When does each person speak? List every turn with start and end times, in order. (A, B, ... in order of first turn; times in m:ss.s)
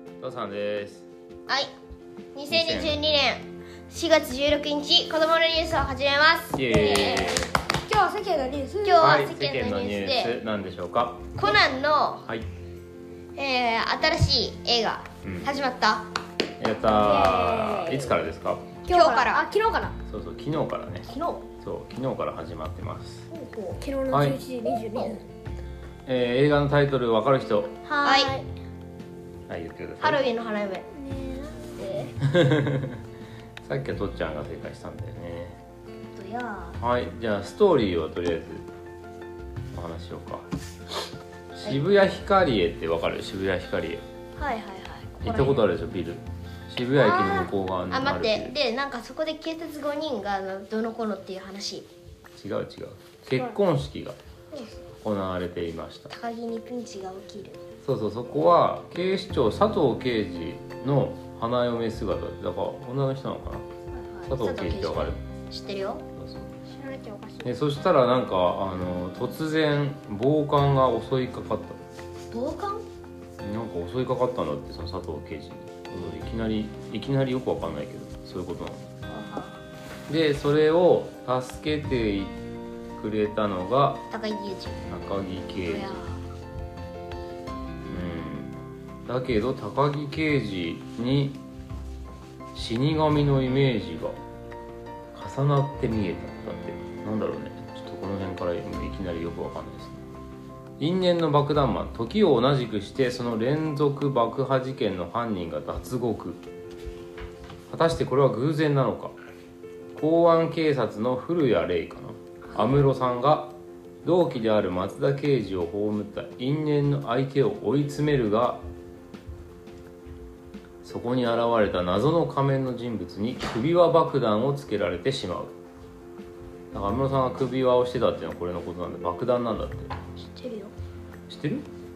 0:00.2-0:01.0 A
0:01.5-0:01.7 B
0:02.3-0:07.5 B
0:02.5-0:03.0 A
0:06.5-0:07.5 A
0:07.7-0:09.1 C
0:08.8-0:10.4 B
0:09.0-0:11.3 A
0:11.3-0:12.2 B
0:13.4-0:16.1 B
0:15.2-0:15.5 A
0:16.6-0:18.7 A
0:16.8-0:18.1 C
0:18.8-0:20.0 C
0:18.9-0:19.5 B
0:20.1-0:21.1 A
0:21.1-0:21.4 B
0:21.6-0:23.2 A
0:23.3-0:23.8 B
0:23.8-0:25.2 C
0:24.1-0:24.4 A
0:26.0-0:27.7 A
0:27.8-0:28.4 C
0:28.0-0:28.4 B
0:29.5-0:30.2 A
0:30.0-0:30.9 B
0:30.9-0:32.1 C
0:32.2-0:33.0 A
0:33.6-0:35.6 A
0:36.1-0:36.8 B
0:36.8-0:38.6 A
0:39.7-0:40.5 A
0:41.5-0:44.0 A
0:44.4-0:45.6 B
0:45.2-0:48.5 A
0:46.9-0:51.9 B
0:52.4-0:54.2 A
0:54.5-0:54.8 B
0:55.0-0:56.1 A
0:56.1-0:57.6 B
0:57.8-1:03.6 A
1:03.9-1:06.0 B
1:04.3-1:05.2 A
1:06.1-1:06.5 A
1:06.7-1:07.5 C
1:07.4-1:11.8 A
1:12.3-1:12.8 B
1:13.4-1:18.9 A
1:19.1-1:19.6 B
1:20.1-1:22.4 A
1:23.0-1:24.0 A
1:24.1-1:24.8 B
1:24.9-1:25.9 A
1:25.6-1:26.2 B
1:27.9-1:28.5 A
1:29.0-1:31.4 A
1:32.5-1:34.2 A
1:35.1-1:40.0 A
1:40.8-1:46.4 A
1:47.7-1:49.1 A
1:49.9-1:58.6 A
2:00.8-2:05.5 A
2:06.7-2:10.0 A
2:10.4-2:10.7 C
2:11.3-2:11.6 A